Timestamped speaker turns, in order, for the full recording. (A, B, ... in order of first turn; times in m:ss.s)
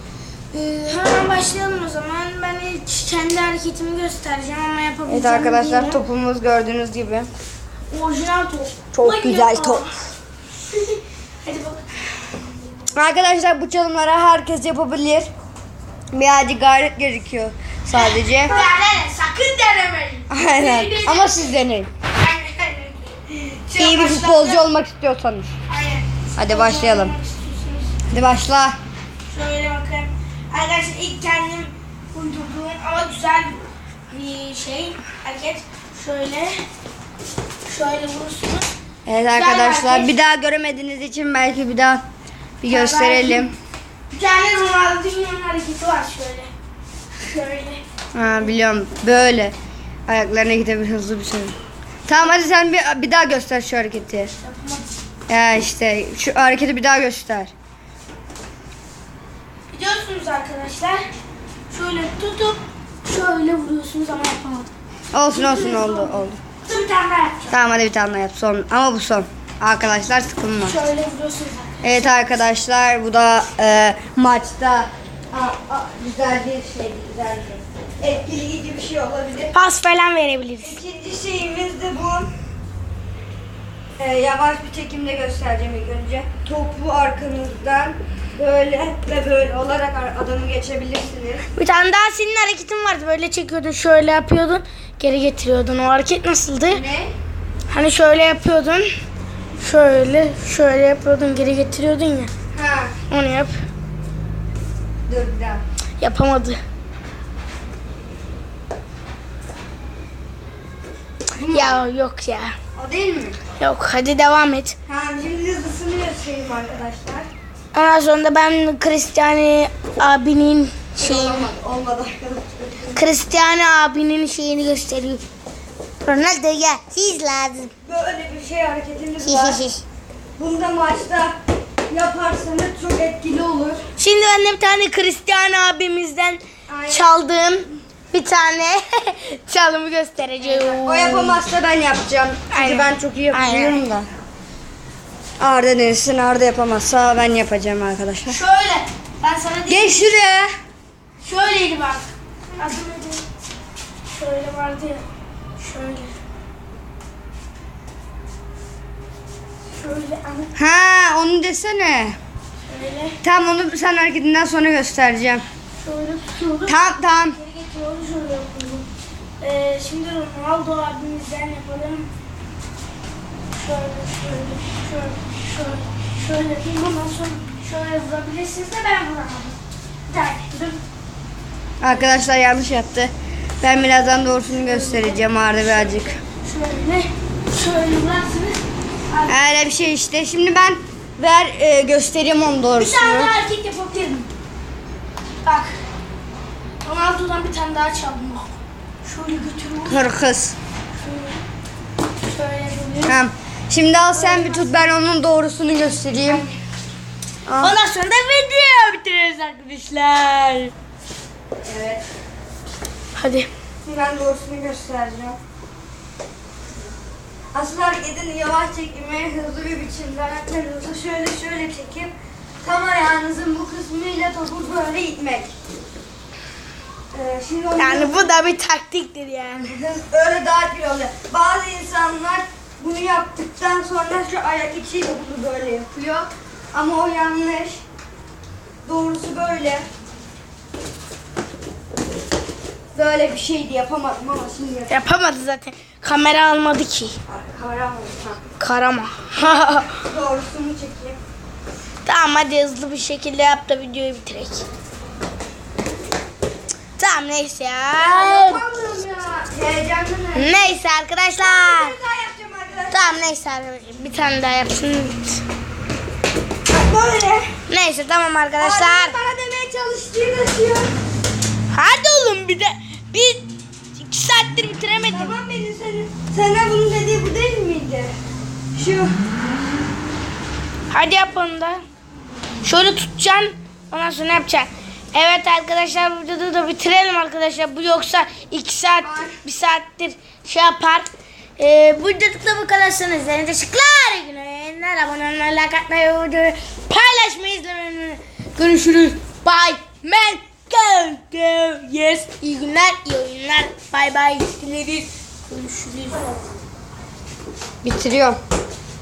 0:00.5-0:06.0 A
0:05.1-0:07.3 B
0:07.9-0:10.0 A
0:08.9-0:09.9 B
0:10.7-0:11.9 A
0:12.9-0:15.3 B
0:16.1-0:18.6 B
0:18.0-0:21.5 A
0:20.3-0:21.9 B
0:22.1-0:24.6 A
0:23.7-0:25.5 B
0:25.7-0:27.9 A
0:26.4-0:27.1 B
0:28.1-0:28.8 B
0:29.3-0:36.6 A
0:37.6-0:38.6 A
0:39.0-0:42.0 B
0:39.3-0:40.1 A
0:42.6-0:43.5 B
0:42.7-0:43.5 A
0:44.1-0:46.5 A
0:47.2-0:47.8 A
0:48.1-0:49.5 B
0:50.1-0:51.5 B
0:52.1-0:54.3 B
0:54.4-0:54.8 A
0:55.3-0:57.5 B
0:59.7-1:01.0 A
1:01.7-1:04.7 A
1:05.1-1:06.4 B
1:05.3-1:07.5 A
1:07.5-1:10.8 B
1:10.6-1:12.1 A
1:11.8-1:19.5 B
1:19.5-1:20.8 A
1:20.6-1:22.3 B
1:24.0-1:31.4 B
1:31.5-1:36.8 A
1:36.7-1:37.1 B
1:37.7-1:38.9 A
1:39.6-1:42.3 A
1:42.5-1:42.9 B
1:43.1-1:43.6 A
1:45.1-1:45.6 B
1:46.0-1:46.6 A
1:51.4-1:51.8 B
1:51.4-1:52.5 A
1:52.8-1:53.4 B
1:53.6-1:54.8 A
1:54.9-1:57.3 B
1:57.7-2:01.5 A
2:01.0-2:03.0 B
2:02.9-2:05.2 A
2:06.0-2:07.7 A
2:07.8-2:09.6 B
2:09.2-2:09.8 A
2:10.4-2:11.3 B
2:11.9-2:13.8 B
2:14.0-2:21.4 A
2:16.7-2:17.1 B
2:20.4-2:24.1 B
2:22.5-2:23.8 A
2:25.4-2:28.4 B
2:28.3-2:30.1 A
2:29.7-2:30.5 B
2:31.2-2:33.2 A
2:34.1-2:35.0 A
2:35.6-2:36.1 A
2:39.7-2:40.5 A
2:40.5-2:42.2 B
2:42.6-2:43.2 A
2:43.2-2:45.4 B
2:45.8-2:46.8 A
2:46.6-2:47.4 B
2:47.3-2:48.9 A
2:49.4-2:52.1 A
2:53.5-2:59.6 A
3:00.1-3:00.8 A
3:01.8-3:06.2 B
3:04.5-3:09.4 A
3:09.3-3:13.3 B
3:12.8-3:14.3 A
3:15.4-3:15.8 A
3:16.8-3:20.0 A
3:19.8-3:20.6 B
3:20.9-3:21.4 A
3:22.2-3:23.2 A
3:23.1-3:26.4 B
3:24.1-3:24.8 A
3:27.5-3:27.8 B
3:27.6-3:30.7 A
3:31.6-3:32.0 B
3:33.1-3:33.5 A
3:33.8-3:35.4 B
3:37.5-3:45.5 B
3:47.1-3:48.4 B
3:47.8-3:49.7 A
3:49.6-3:57.8 B
3:58.8-3:59.8 B
4:02.9-4:04.9 B
4:04.9-4:07.2 A
4:07.3-4:08.4 B
4:08.6-4:09.9 A
4:09.4-4:11.2 B
4:12.0-4:14.6 A
4:17.0-4:18.6 A
4:18.0-4:20.7 B
4:20.3-4:22.0 A
4:21.4-4:23.2 B
4:22.9-4:25.4 A
4:26.7-4:27.5 B
4:27.7-4:29.1 A
4:28.6-4:30.9 B
4:31.7-4:35.3 A
4:35.1-4:38.1 B
4:38.7-4:39.2 B
4:40.9-4:41.8 A
4:42.6-5:06.4 A
4:49.0-4:49.4 B
5:07.8-5:08.4 B